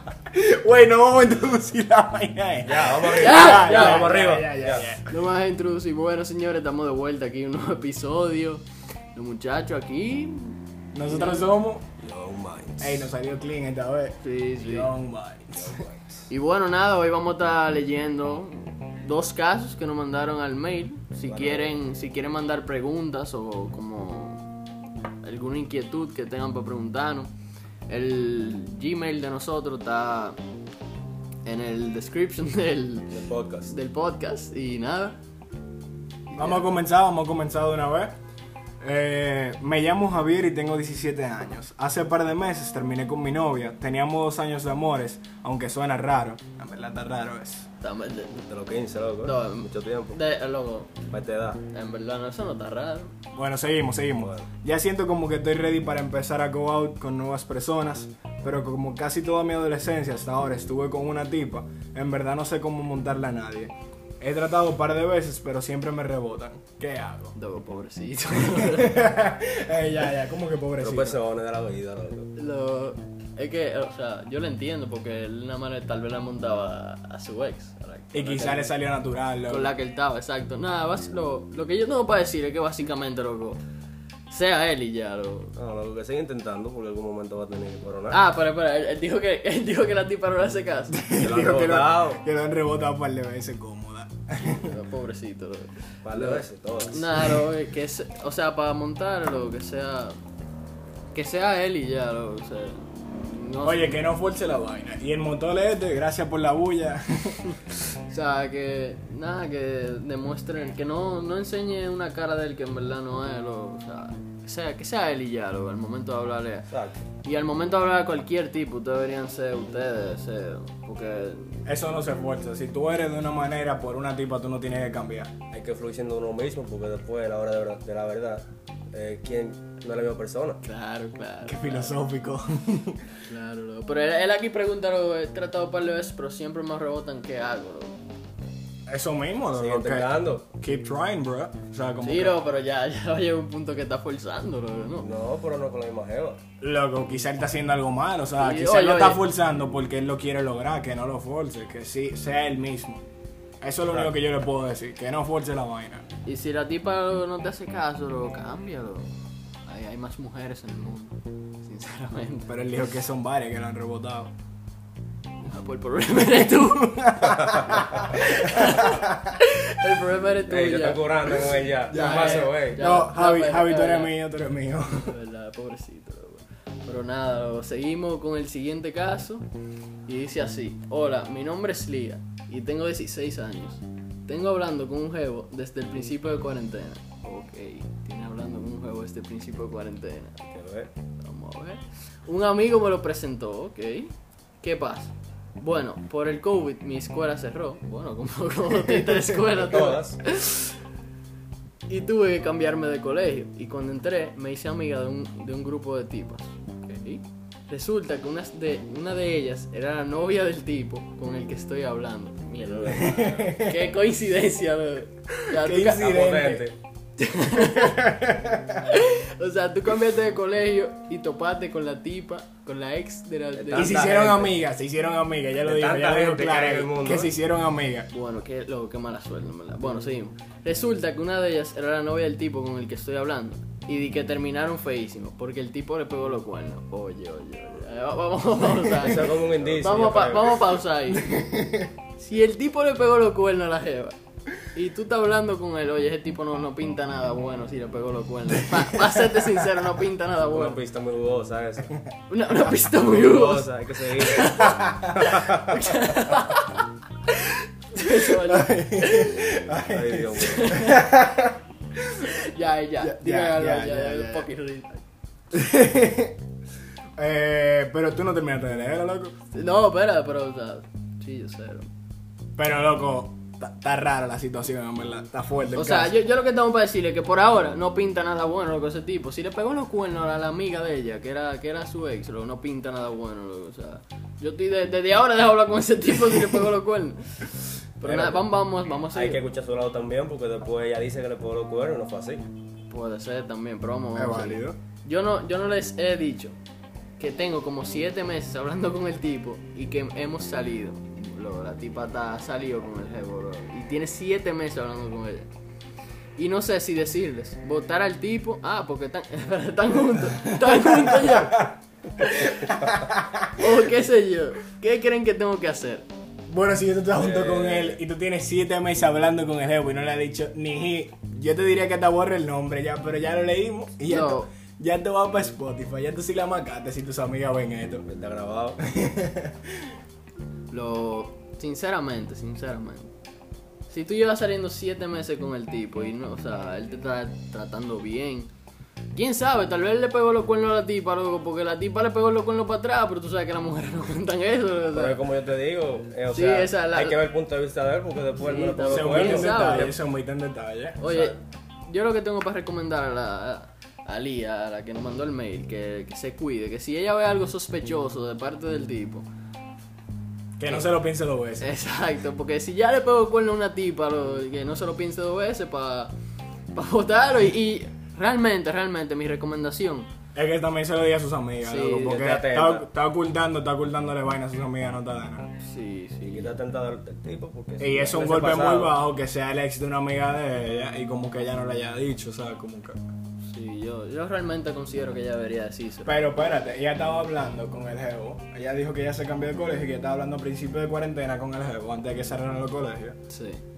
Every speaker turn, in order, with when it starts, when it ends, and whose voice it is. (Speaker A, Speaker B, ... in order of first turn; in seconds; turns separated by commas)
Speaker A: 0.3-5.1, Speaker B: 2.6-4.9, Speaker C: 3.1-4.2, Speaker C: 5.0-8.6, Speaker C: 9.1-11.5, Speaker A: 10.9-11.8, Speaker B: 12.0-13.1, Speaker A: 12.8-15.8, Speaker C: 14.2-14.9, Speaker B: 15.6-16.0, Speaker C: 16.3-24.5, Speaker B: 21.3-21.8, Speaker C: 25.2-27.3, Speaker C: 27.9-30.4, Speaker C: 31.4-33.1, Speaker B: 33.1-33.7, Speaker C: 33.7-35.2, Speaker C: 36.3-36.6, Speaker A: 36.3-38.1, Speaker A: 38.8-47.7, Speaker C: 47.8-48.4, Speaker B: 48.3-50.2, Speaker C: 49.2-50.9, Speaker B: 51.1-51.6, Speaker C: 51.7-53.1, Speaker A: 53.3-67.3, Speaker B: 54.2-54.5, Speaker C: 67.3-69.0, Speaker A: 68.6-71.2, Speaker B: 70.8-72.3, Speaker C: 72.3-78.7, Speaker A: 78.1-79.7, Speaker C: 79.5-83.6, Speaker C: 84.3-85.5, Speaker B: 85.5-88.2, Speaker C: 88.1-91.1, Speaker A: 90.9-94.7, Speaker B: 91.2-92.2, Speaker C: 94.4-100.2, Speaker B: 96.0-97.0, Speaker A: 97.1-97.4, Speaker C: 101.1-104.0, Speaker A: 103.6-107.5, Speaker C: 108.1-116.7, Speaker B: 116.7-117.0, Speaker C: 117.2-121.6, Speaker A: 121.7-125.3, Speaker B: 125.5-130.6, Speaker C: 130.6-132.0, Speaker A: 131.4-133.0, Speaker C: 133.2-138.0, Speaker A: 138.9-142.4, Speaker B: 139.5-140.5, Speaker C: 142.0-145.1, Speaker B: 145.0-146.4, Speaker A: 146.6-153.0, Speaker C: 148.4-149.2, Speaker A: 153.6-156.0, Speaker B: 153.9-154.1, Speaker C: 156.2-159.1, Speaker C: 159.7-162.7, Speaker A: 162.5-164.3, Speaker C: 165.4-167.2, Speaker A: 166.8-169.3, Speaker B: 167.3-167.7, Speaker C: 168.0-174.2, Speaker B: 170.5-172.8, Speaker A: 171.9-175.2, Speaker C: 175.0-179.5, Speaker C: 180.1-190.4, Speaker B: 190.5-190.9, Speaker C: 191.2-200.8, Speaker A: 198.8-199.3, Speaker B: 199.6-200.2, Speaker C: 201.9-216.2, Speaker A: 213.0-213.8, Speaker A: 215.5-216.7, Speaker B: 215.9-216.8, Speaker C: 217.2-218.2, Speaker A: 217.6-218.8, Speaker C: 218.8-224.0, Speaker B: 223.5-224.5, Speaker A: 223.7-228.1, Speaker B: 225.6-227.3, Speaker C: 228.1-241.6, Speaker B: 239.0-240.7, Speaker A: 241.2-241.9, Speaker C: 242.1-250.8, Speaker A: 249.3-249.6, Speaker B: 250.4-251.9, Speaker C: 252.3-259.5, Speaker B: 253.0-255.8, Speaker A: 258.1-261.6, Speaker B: 259.9-260.7, Speaker C: 260.4-261.1, Speaker C: 262.2-265.0, Speaker A: 263.0-264.5, Speaker A: 265.5-266.4, Speaker A: 267.1-269.3, Speaker C: 269.5-271.9, Speaker A: 272.6-276.1, Speaker C: 275.7-289.4, Speaker B: 288.0-288.4, Speaker B: 289.1-292.4, Speaker C: 292.9-296.6, Speaker A: 294.1-294.8, Speaker C: 297.2-305.5, Speaker C: 306.4-312.7, Speaker A: 310.7-311.4, Speaker A: 312.9-313.6, Speaker C: 313.5-316.1, Speaker A: 316.5-328.1, Speaker B: 317.1-318.0, Speaker C: 324.1-324.5, Speaker B: 328.1-328.8, Speaker A: 328.8-329.7, Speaker C: 330.7-333.1, Speaker C: 333.9-338.5, Speaker C: 339.1-345.2, Speaker B: 344.9-350.0, Speaker C: 346.3-347.2, Speaker C: 348.4-349.9, Speaker A: 348.9-351.3, Speaker C: 351.0-359.3, Speaker A: 360.6-361.7, Speaker C: 361.6-366.1, Speaker C: 366.7-370.1, Speaker A: 370.3-375.5, Speaker C: 371.6-372.2, Speaker B: 371.9-372.9, Speaker C: 375.6-376.5, Speaker B: 376.2-378.9, Speaker A: 377.8-383.0, Speaker C: 383.4-386.2, Speaker A: 386.0-393.2, Speaker C: 393.3-393.6